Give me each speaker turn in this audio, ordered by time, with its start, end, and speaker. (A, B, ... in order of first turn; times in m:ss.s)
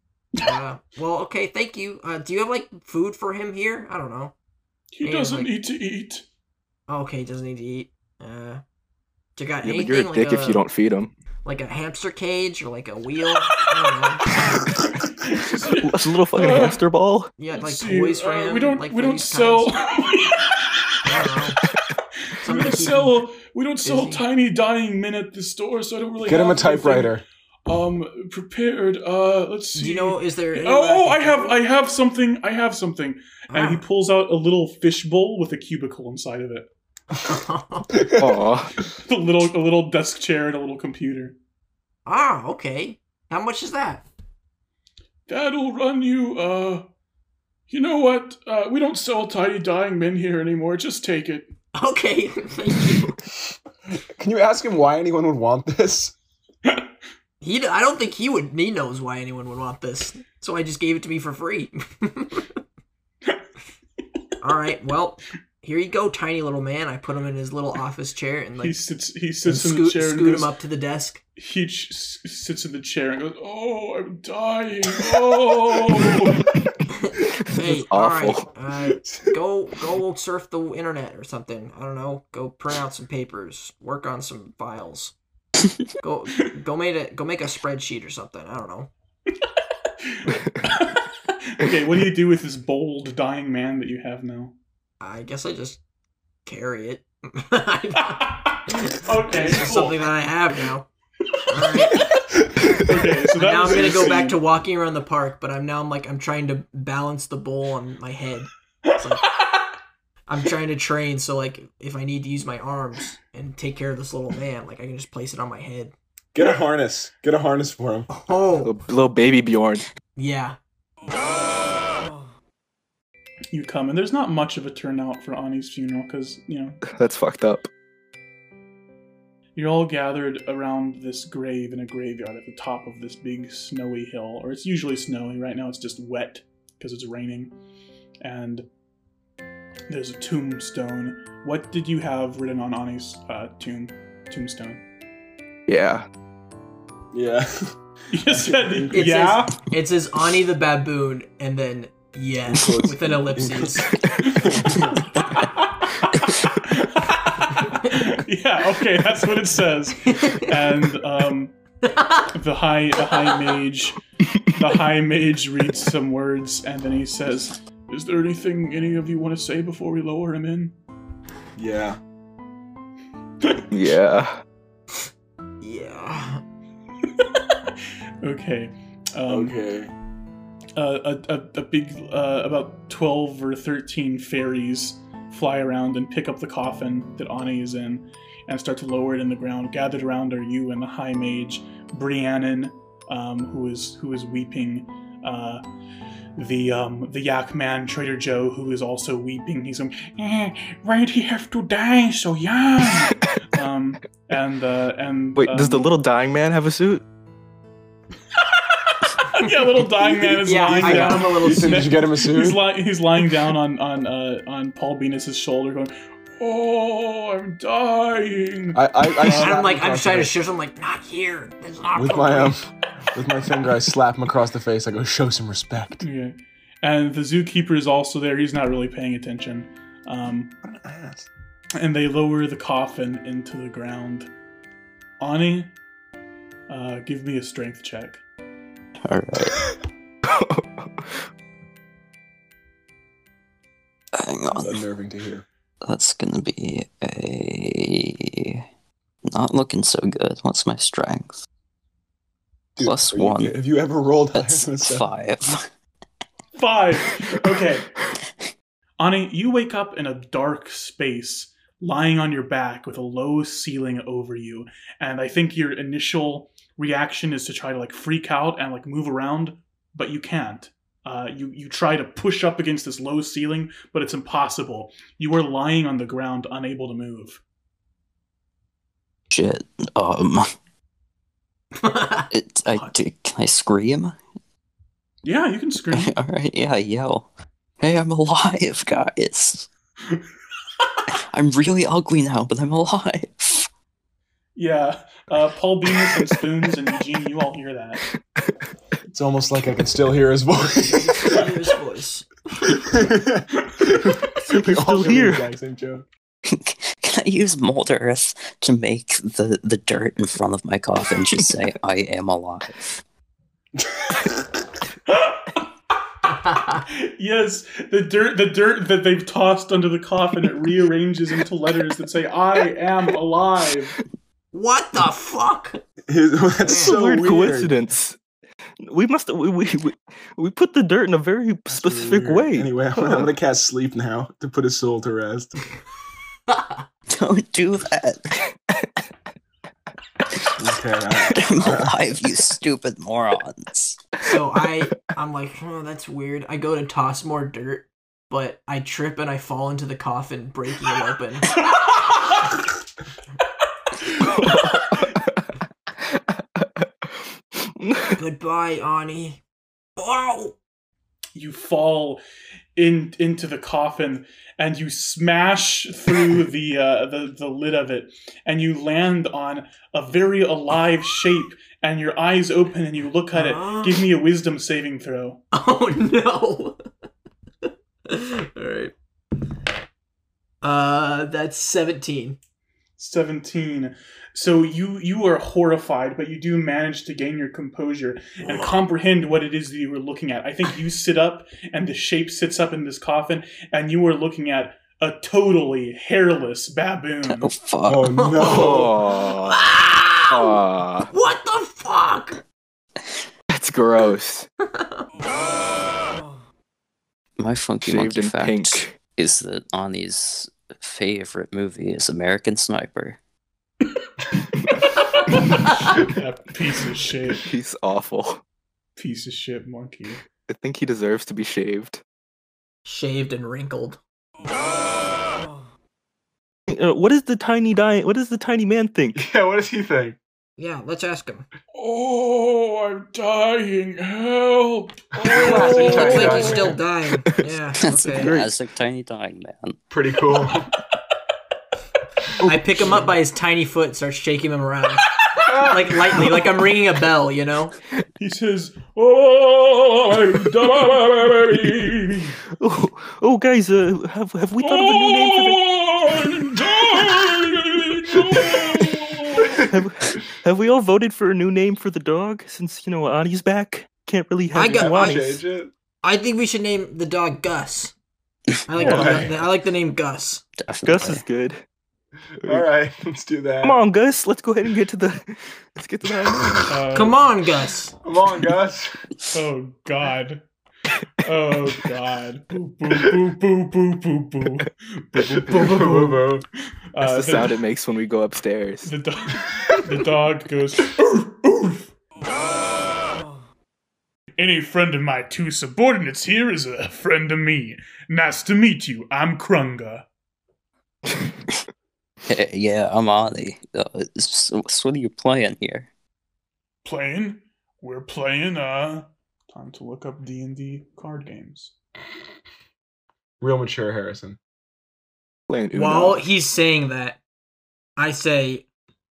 0:00.4-0:04.3 A
0:04.9-0:06.2 B
0:05.0-0:05.5 A
0:06.9-0:08.6 A
0:09.4-0:10.6 A
0:09.6-0:11.1 C
0:11.4-0:14.6 A
0:14.3-0:16.8 B
0:15.8-0:17.3 C
0:17.4-0:20.0 A
0:17.5-0:21.4 B
0:21.0-0:21.6 A
0:22.4-0:36.7 B
0:22.4-0:23.2 A
0:23.8-0:24.2 A
0:26.2-0:27.2 D
0:29.7-0:31.6 A
0:33.5-0:33.8 A
0:37.2-0:38.0 A
0:38.0-0:38.8 C
0:38.9-0:41.4 B
0:42.1-0:44.0 A
0:45.3-0:46.9 B
0:47.7-0:51.5 B
0:51.7-0:53.2 A
0:53.9-0:56.1 D
0:57.4-1:02.5 A
1:04.4-1:08.8 A
1:08.6-1:10.5 B
1:09.4-1:11.2 A
1:11.4-1:16.5 B
1:16.9-1:25.2 A
1:17.5-1:18.4 C
1:19.0-1:19.3 D
1:26.0-1:28.9 A
1:30.1-1:34.5 B
1:35.0-1:35.8 A
1:36.4-1:40.9 A
1:38.2-1:40.1 B
1:41.5-1:42.1 A
1:42.7-1:44.4 B
1:43.4-1:49.3 A
1:48.9-1:49.6 B
1:50.3-1:55.9 A
1:56.3-1:58.1 D
1:58.1-1:58.8 A
1:58.6-1:59.8 C
2:00.2-2:00.6 A
2:03.5-2:06.8 B
2:06.9-2:07.7 C
2:09.6-2:17.5 B
2:18.2-2:18.7 B
2:19.9-2:24.8 B
2:25.7-2:26.1 C
2:27.1-2:27.7 D
2:28.1-2:29.6 B
2:28.3-2:29.1 D
2:28.9-2:33.9 A
2:32.5-2:34.9 D
2:35.0-2:35.4 B
2:36.0-2:41.6 B
2:40.1-2:40.5 A
2:41.8-2:42.3 A
2:42.3-2:44.0 B
2:44.6-2:50.8 B
2:51.6-2:52.0 D
2:53.7-2:54.4 C
2:55.6-2:56.4 A
2:58.2-2:59.6 B
2:59.3-2:59.9 D
3:00.8-3:15.6 B
3:16.4-3:25.9 B
3:25.4-3:27.0 C
3:28.8-3:39.6 B
3:30.0-3:32.6 D
3:30.4-3:31.9 A
3:38.7-3:40.4 D
3:39.4-3:42.6 A
3:42.0-3:46.0 D
3:46.0-3:50.5 B
3:50.6-3:51.3 D
3:51.8-3:54.3 B
3:55.2-3:55.7 B
3:56.7-3:58.2 B
3:59.0-3:59.7 E
4:00.2-4:01.2 C
4:04.2-4:04.8 E
4:04.5-4:05.4 D
4:05.8-4:08.6 E
4:09.3-4:11.4 E
4:12.8-4:15.1 D
4:12.8-4:13.6 E
4:14.3-4:15.7 E
4:16.6-4:17.9 B
4:19.0-4:37.4 B
4:39.3-4:40.5 E
4:41.8-4:42.9 A
4:42.3-4:44.2 E
4:45.2-4:46.1 B
4:45.9-4:47.3 E
4:47.8-4:49.7 E
4:51.3-4:53.6 E
4:54.6-4:58.0 B
4:59.1-5:01.5 D
5:00.9-5:02.3 A
5:02.7-5:06.1 D
5:04.5-5:05.5 C
5:06.5-5:13.0 E
5:15.1-5:15.7 B
5:16.4-5:16.8 A
5:16.8-5:24.0 B
5:24.5-5:25.8 A
5:26.1-5:27.7 D
5:26.6-5:27.0 A
5:26.7-5:28.2 C
5:28.8-5:33.2 C
5:31.7-5:35.6 D
5:36.5-5:36.8 A
5:37.1-5:38.2 E
5:40.6-5:42.0 D
5:41.2-5:44.0 E
5:44.2-5:51.6 A
5:51.7-5:52.4 B
5:54.2-5:55.3 C
5:54.4-5:54.7 B
5:56.2-5:56.9 C
5:57.6-5:58.2 C
5:58.2-5:59.4 A
6:00.0-6:00.6 A
6:01.3-6:02.2 B
6:02.8-6:15.4 B
6:13.3-6:14.0 A
6:15.5-6:16.8 A
6:18.1-6:18.9 A
6:20.6-6:22.4 A
6:23.0-6:37.5 B
6:28.5-6:28.7 A
6:37.3-6:38.2 E
6:37.9-6:39.0 D
6:38.1-6:42.4 A
6:38.4-6:39.7 C
6:40.3-6:41.1 C
6:43.5-6:44.5 C
6:44.7-6:45.0 A
6:47.4-6:53.2 E
6:47.8-6:49.0 C
6:55.3-6:57.5 B
6:57.3-6:58.4 C
6:59.0-7:00.2 B
7:00.5-7:02.0 C
7:02.8-7:04.0 A
7:06.7-7:09.2 C
7:09.2-7:10.2 D
7:10.6-7:11.5 A
7:11.7-7:16.8 B
7:15.2-7:16.8 D
7:15.3-7:18.4 A
7:17.8-7:19.8 E
7:18.1-7:18.5 C
7:19.9-7:20.7 D
7:22.4-7:27.8 A
7:22.5-7:23.0 C
7:25.2-7:25.5 B
7:25.4-7:26.2 D
7:28.2-7:32.4 B
7:31.6-7:31.9 C
7:32.4-7:36.3 C
7:34.6-7:39.6 B
7:39.4-7:39.7 D
7:39.5-7:45.4 C
7:44.5-7:45.4 A
7:44.8-7:45.7 D
7:46.0-7:47.9 A
7:48.7-7:50.4 A
7:48.8-7:49.3 C
7:48.8-7:49.3 D
7:50.6-7:51.2 E
7:50.8-7:51.6 C
7:52.4-7:53.8 D
7:53.6-7:56.8 C
7:56.7-7:57.2 B
7:56.9-7:57.9 A
7:58.0-7:59.0 D
7:59.3-8:00.4 B
8:01.2-8:07.6 B
8:05.2-8:06.4 D
8:07.0-8:08.9 C
8:08.8-8:11.9 B
8:14.4-8:20.0 B
8:22.3-8:25.9 E
8:26.8-8:31.7 B
8:33.4-8:34.4 D
8:35.5-8:36.2 C
8:35.7-8:37.2 A
8:38.0-8:38.7 A